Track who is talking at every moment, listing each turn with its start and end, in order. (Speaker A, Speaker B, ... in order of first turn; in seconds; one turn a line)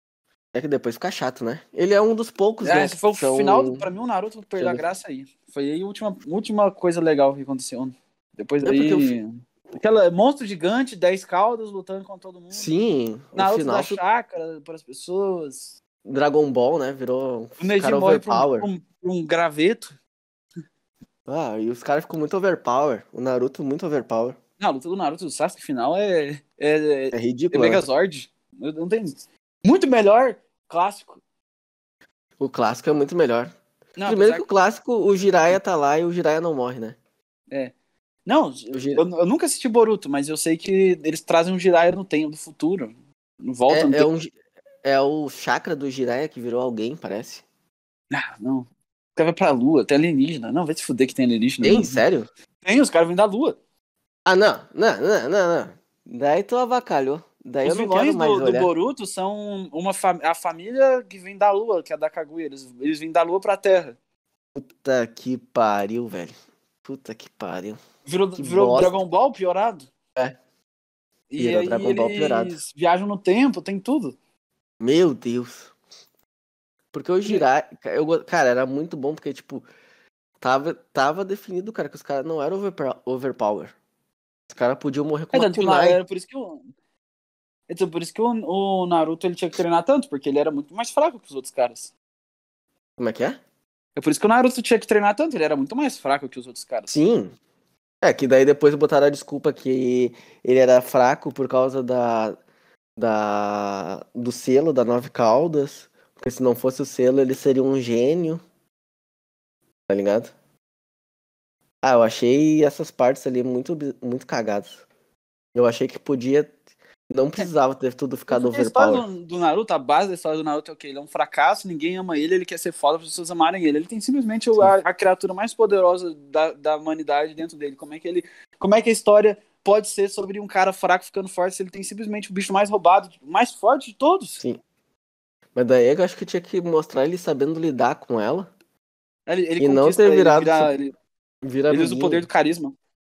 Speaker A: 0.5-3.9
Speaker B: 2.6-12.7
Speaker A: 4.6-4.8
Speaker A: 8.6-9.1
Speaker A: 12.5-14.0
Speaker B: 13.3-15.8
Speaker A: 16.0-18.7
Speaker B: 17.6-19.9
Speaker A: 21.3-24.4
Speaker B: 24.6-31.2
Speaker A: 27.1-27.8
Speaker A: 32.4-33.5
Speaker B: 34.0-34.5
Speaker A: 34.0-37.0
Speaker B: 38.2-44.1
Speaker A: 38.7-39.0
Speaker A: 43.7-47.4
Speaker B: 48.1-52.0
Speaker A: 51.6-52.3
Speaker B: 52.6-53.6
Speaker A: 54.2-58.7
Speaker B: 57.6-64.0
Speaker A: 64.5-67.8
Speaker B: 68.0-69.9
Speaker A: 68.4-69.0
Speaker B: 71.3-74.1
Speaker A: 71.4-72.5
Speaker A: 74.8-75.7
Speaker A: 76.9-79.7
Speaker A: 80.4-83.7
Speaker A: 84.5-86.0
Speaker B: 85.3-86.6
Speaker B: 87.7-91.9
Speaker A: 93.0-93.4
Speaker B: 94.0-96.9
Speaker A: 96.9-97.3
Speaker A: 98.0-102.4
Speaker A: 103.0-108.4
Speaker A: 109.9-110.3
Speaker A: 111.8-114.8
Speaker A: 115.5-116.5
Speaker A: 117.1-119.0
Speaker B: 118.3-134.4
Speaker A: 135.5-138.5
Speaker B: 139.3-140.9
Speaker A: 139.6-140.7
Speaker A: 141.4-142.2
Speaker B: 141.7-142.7